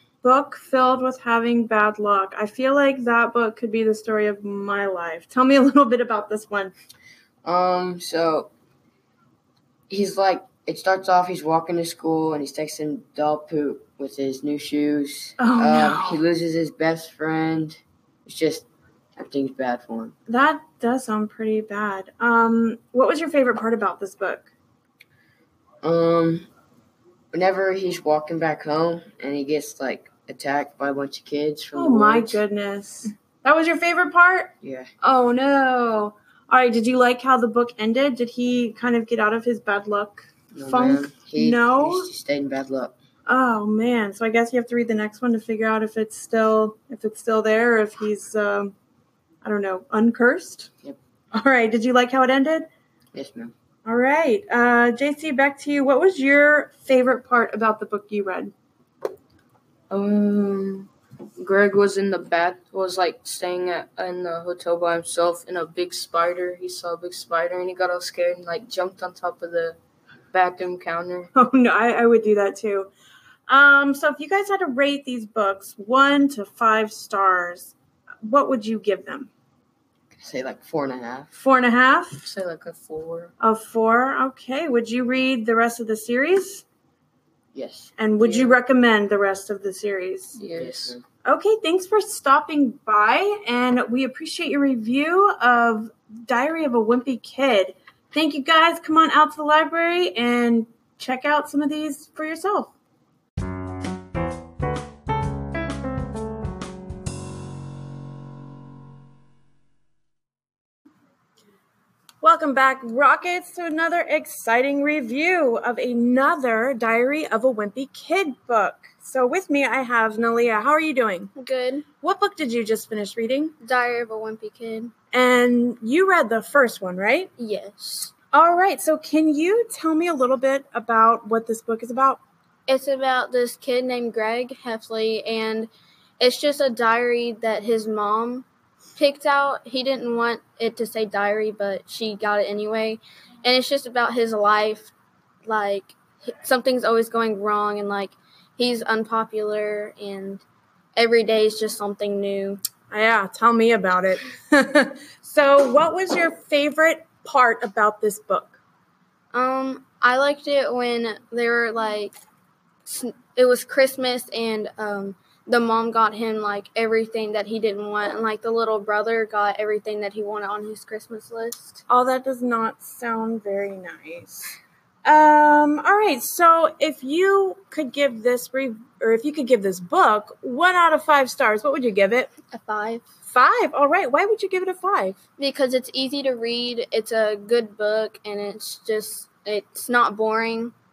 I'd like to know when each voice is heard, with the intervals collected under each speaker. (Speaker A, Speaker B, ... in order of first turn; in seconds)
Speaker A: 0.2-6.7, 15.4-16.2, 20.3-24.5, 31.7-42.1, 43.2-48.7, 49.4-50.7, 51.3-52.7, 53.8-58.5, 71.3-72.9, 73.5-79.3, 81.3-82.3, 83.4-86.6, 88.0-90.3, 91.2-102.7, 112.2-121.3, 122.0-123.5, 125.1-127.3, 128.3-132.2, 152.9-158.6, 171.9-182.3, 183.3-185.2
Speaker B: 7.4-8.5, 9.9-18.6, 19.2-20.1, 25.8-26.5, 27.3-32.4, 34.6-34.9, 40.5-43.0, 53.1-53.5, 80.1-81.3, 87.5-87.9, 90.5-91.0
Speaker C: 59.9-69.8, 70.3-71.3, 82.2-83.3, 88.2-88.6, 90.3-91.0
Speaker D: 121.3-121.8, 123.6-124.9, 127.4-128.1, 132.7-144.9, 145.4-150.4, 150.9-152.6, 159.3-162.2, 162.8-171.8, 182.5-183.1, 185.4-190.7